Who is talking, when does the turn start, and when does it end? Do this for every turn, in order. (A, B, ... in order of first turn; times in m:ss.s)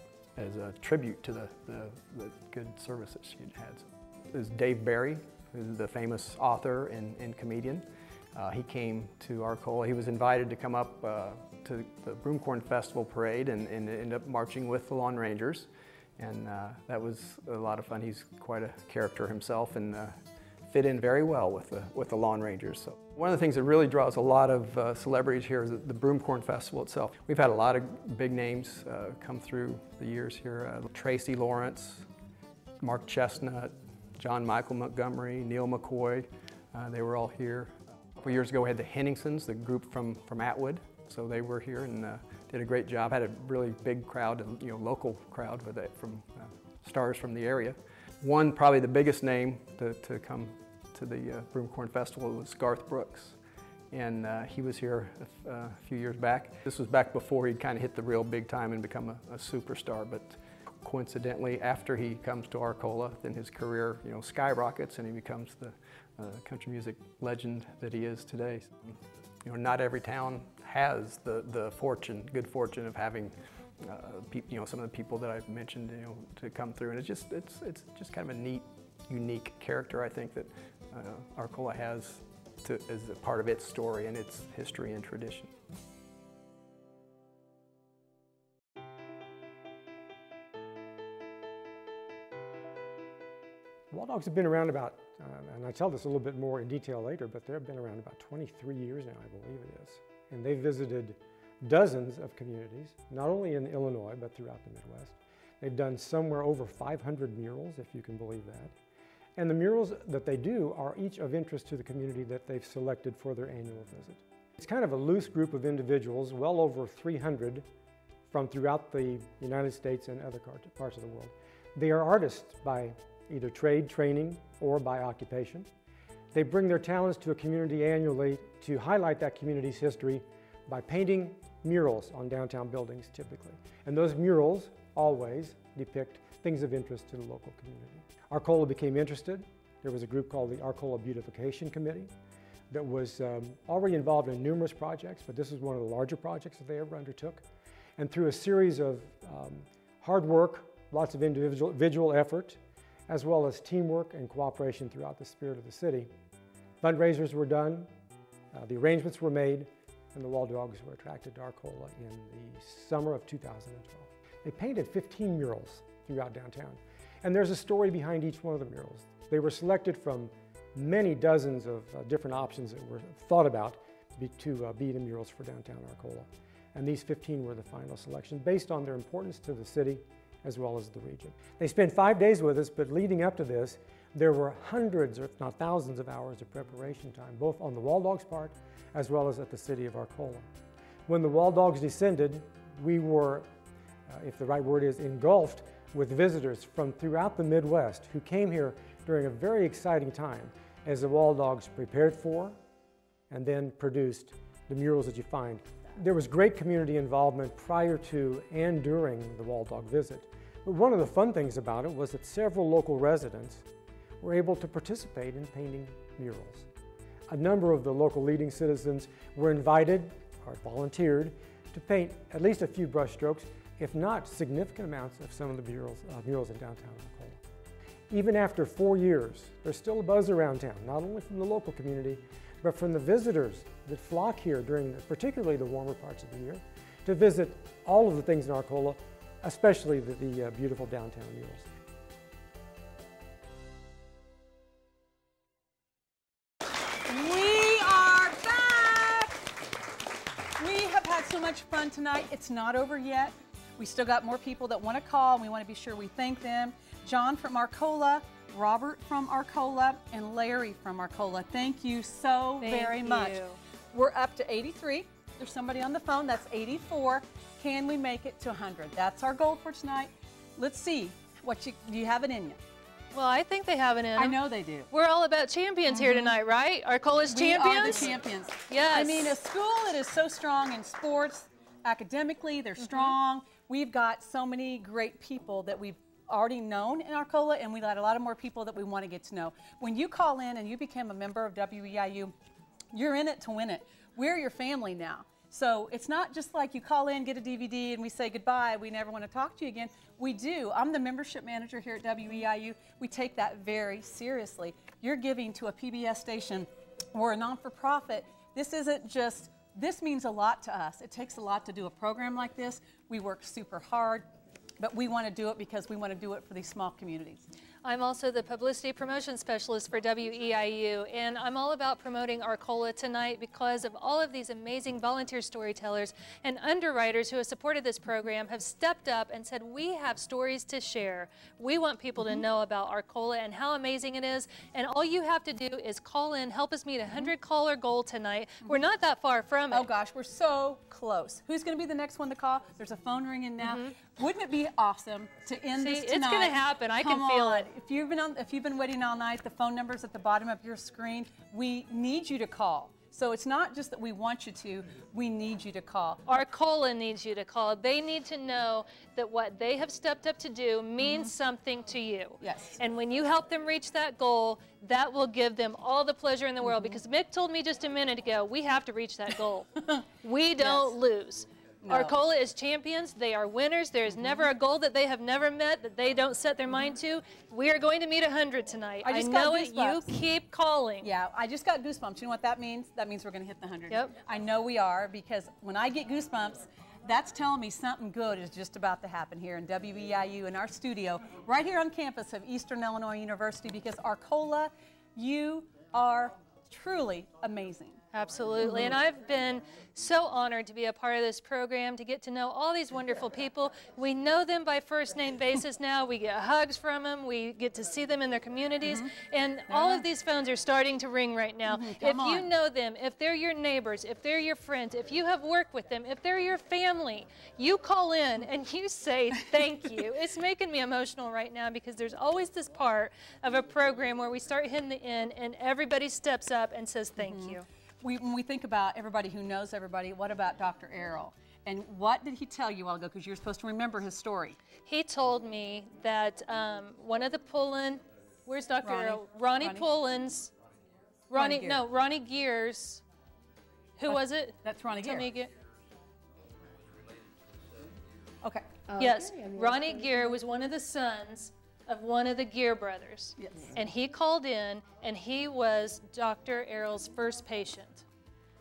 0:00.3-0:32.1 A
0:32.8-0:53.4 A
0:53.9-1:25.5 A
1:33.9-1:48.7 B
1:49.4-1:57.7 B
1:58.3-2:05.7 B
2:06.3-2:22.1 B
2:22.7-2:27.4 B
2:28.0-2:36.1 B
2:36.8-2:37.9 B
2:38.5-3:10.5 B
3:11.1-3:13.5 B
3:14.1-3:22.6 B
3:23.3-3:33.6 B
3:34.2-3:36.7 B
3:37.3-3:47.4 B
3:48.1-4:01.7 B
4:07.0-4:09.4 C
4:10.6-4:32.6 C
4:22.6-4:23.6 D
4:33.1-4:39.4 D
4:34.2-4:34.9 C
4:35.9-4:36.4 C
4:37.3-4:52.4 C
4:42.8-4:43.1 D
4:52.9-5:14.2 C
5:14.8-5:17.4 C
5:17.8-5:39.9 D
5:39.7-5:56.2 C
5:43.6-5:44.0 D
5:45.8-5:47.7 D
5:56.3-6:21.1 D
6:01.0-6:01.3 C
6:02.4-6:02.8 C
6:06.6-6:07.0 C
6:10.6-6:10.9 C
6:11.8-6:12.2 C
6:14.1-6:14.5 C
6:19.0-6:20.2 C
6:21.0-6:38.0 C
6:23.9-6:24.1 D
6:38.1-7:07.6 D
6:38.6-6:39.0 C
6:48.8-6:49.1 C
6:49.7-6:50.0 C
6:51.6-6:52.5 C
7:07.2-7:14.6 C
7:14.9-7:20.5 D
7:18.8-7:19.9 C
7:21.3-7:23.0 D
7:21.3-7:21.8 C
7:24.0-7:25.5 D
7:24.1-7:25.3 C
7:28.4-7:30.3 C
7:29.0-7:38.0 D
7:33.4-7:33.8 C